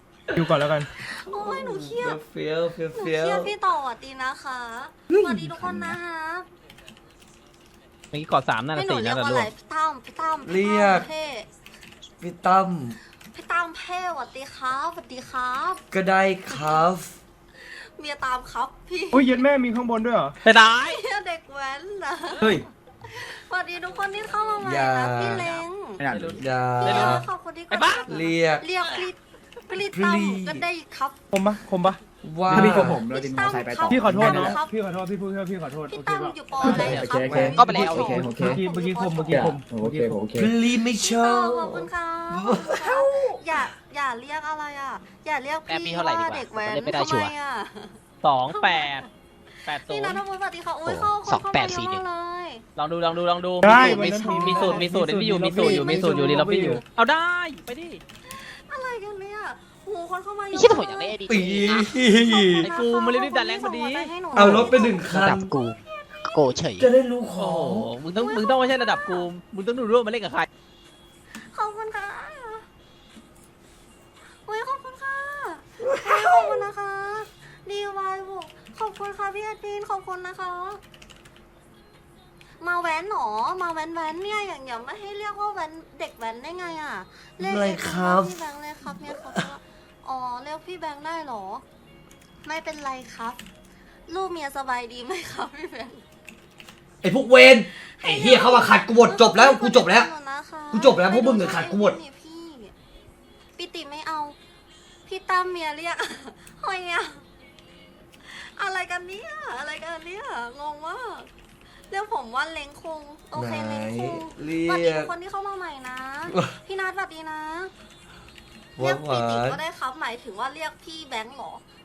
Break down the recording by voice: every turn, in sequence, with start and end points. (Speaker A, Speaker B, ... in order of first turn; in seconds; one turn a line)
Speaker A: 0.3-0.9
Speaker B: 1.0-2.2
Speaker C: 1.3-3.5
Speaker B: 2.9-6.5
Speaker C: 5.6-5.9
Speaker D: 8.1-9.5
Speaker B: 8.7-11.5
Speaker C: 10.4-11.1
Speaker C: 12.2-13.0
Speaker B: 13.3-15.8
Speaker C: 15.9-17.2
Speaker B: 16.5-16.8
Speaker B: 17.6-19.5
Speaker A: 19.1-20.4
Speaker D: 20.4-21.0
Speaker B: 20.7-26.0
Speaker E: 22.4-22.7
Speaker C: 24.6-25.6
Speaker E: 26.0-26.4
Speaker D: 26.1-28.0
Speaker C: 26.4-27.3
Speaker B: 26.8-31.2
Speaker C: 28.1-28.7
Speaker C: 29.9-30.7
Speaker A: 31.3-32.9
Speaker C: 32.2-33.0
Speaker E: 32.5-38.6
Speaker B: 32.7-34.7
Speaker A: 33.9-36.3
Speaker B: 35.9-39.5
Speaker C: 37.1-37.8
Speaker F: 37.5-38.2
Speaker A: 38.2-40.2
Speaker E: 39.3-40.5
Speaker C: 40.4-43.4
Speaker B: 40.8-49.1
Speaker F: 45.7-47.3
Speaker D: 48.2-49.0
Speaker D: 49.7-50.2
Speaker B: 49.8-52.6
Speaker F: 50.9-52.0
Speaker D: 52.8-58.0
Speaker A: 53.6-56.8
Speaker B: 53.6-54.9
Speaker B: 55.5-56.1
Speaker B: 58.3-66.6
Speaker F: 60.5-62.0
Speaker C: 61.3-62.7
Speaker D: 62.6-64.1
Speaker C: 64.3-65.5
Speaker F: 64.4-66.9
Speaker C: 66.8-67.9
Speaker D: 67.4-70.5
Speaker B: 68.1-69.3
Speaker B: 71.4-72.7
Speaker B: 74.5-80.8
Speaker C: 75.8-76.7
Speaker B: 82.6-91.6
Speaker C: 87.4-88.4
Speaker C: 89.1-89.4
Speaker B: 92.4-93.4
Speaker B: 94.1-96.0
Speaker C: 97.0-100.1
Speaker B: 97.9-102.7
Speaker C: 100.7-102.0
Speaker B: 103.6-104.4
Speaker B: 105.1-107.2
Speaker B: 108.2-111.3
Speaker B: 111.9-117.7
Speaker C: 113.3-115.1
Speaker C: 118.8-119.6
Speaker B: 118.8-121.6